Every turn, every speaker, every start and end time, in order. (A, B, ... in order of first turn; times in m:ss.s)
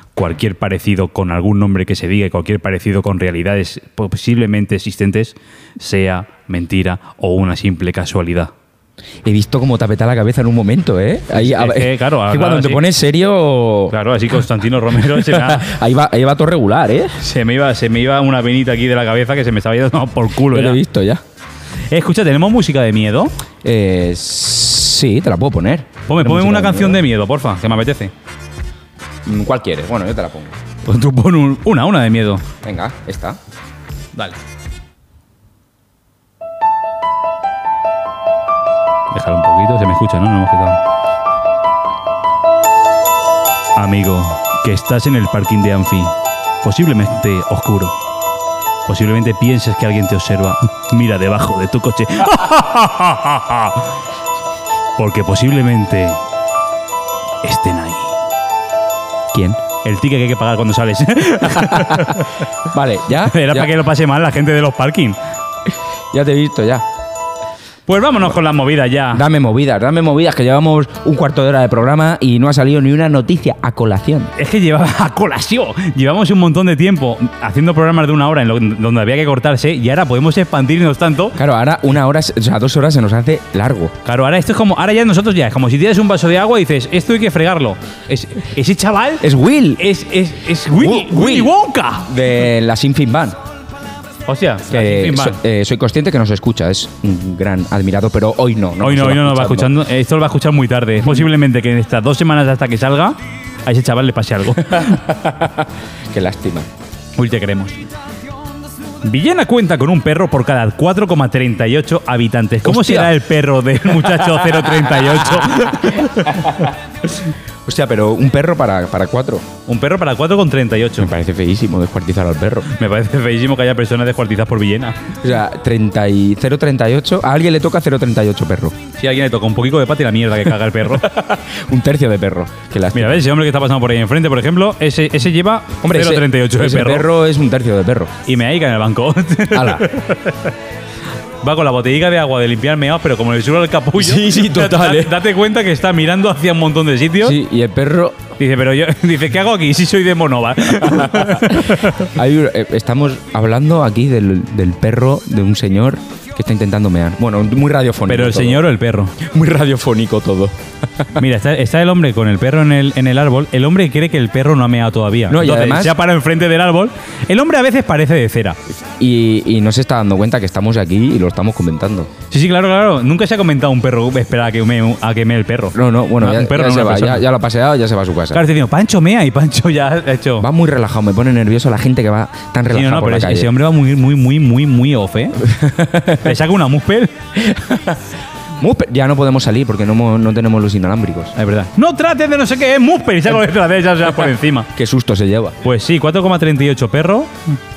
0:00.2-0:08.5 A
0:09.2-0:13.9 B
0:11.3-0:12.8 A
0:13.9-0:15.7 A
0:15.0-0:17.2 B
0:17.2-0:20.8 A
0:20.5-0:21.2 B
0:21.9-0:23.3 A
0:23.6-0:27.0 B
0:26.1-0:28.1 A
0:29.2-0:30.6 B
0:30.8-0:32.4 A
0:32.6-0:33.4 B
0:39.1-0:40.8 A
0:43.8-0:48.0 A
0:48.9-0:53.9 A
0:55.0-0:56.2 A
0:57.4-0:58.1 A
0:59.3-0:59.6 B
0:59.8-1:02.3 A
1:01.6-1:02.2 B
1:02.7-1:03.7 B
1:03.2-1:05.2 A
1:06.1-1:06.8 B
1:07.9-1:09.2 A
1:09.1-1:14.3 B
1:14.4-1:21.4 A
1:21.4-1:23.9 B
1:24.0-1:29.2 A
1:29.2-1:29.8 B
1:29.8-1:32.1 A
1:30.7-1:33.4 B
1:34.3-1:35.4 A
1:34.7-1:39.7 B
1:38.8-1:45.0 A
1:44.7-1:46.7 B
1:47.2-1:47.8 A
1:49.0-1:56.6 A
1:52.6-1:53.1 B
1:54.0-1:56.7 B
1:57.6-1:59.5 B
1:59.7-2:01.1 A
2:01.0-2:02.7 B
2:02.7-2:05.0 A
2:05.2-2:08.8 B
2:09.0-2:11.1 A
2:11.1-2:13.2 B
2:12.9-2:17.1 A
2:15.8-2:18.1 B
2:18.2-2:20.5 A
2:19.5-2:19.9 B
2:21.4-2:27.4 A
2:24.0-2:25.2 B
2:27.2-2:28.2 B
2:28.4-2:32.1 A
2:30.8-2:38.6 B
2:38.1-2:39.2 A
2:39.2-2:41.1 B
2:41.2-2:48.6 A
2:45.3-2:45.9 B
2:49.0-2:52.1 B
2:52.3-2:57.2 A
2:55.7-2:58.4 B
2:58.3-3:00.5 A
3:00.4-3:03.5 B
3:02.7-3:05.4 A
3:05.4-3:06.3 B
3:06.2-3:07.1 A
3:07.4-3:08.0 B
3:08.6-3:11.3 B
3:11.4-3:14.7 A
3:14.7-3:15.6 B
3:15.6-3:17.3 A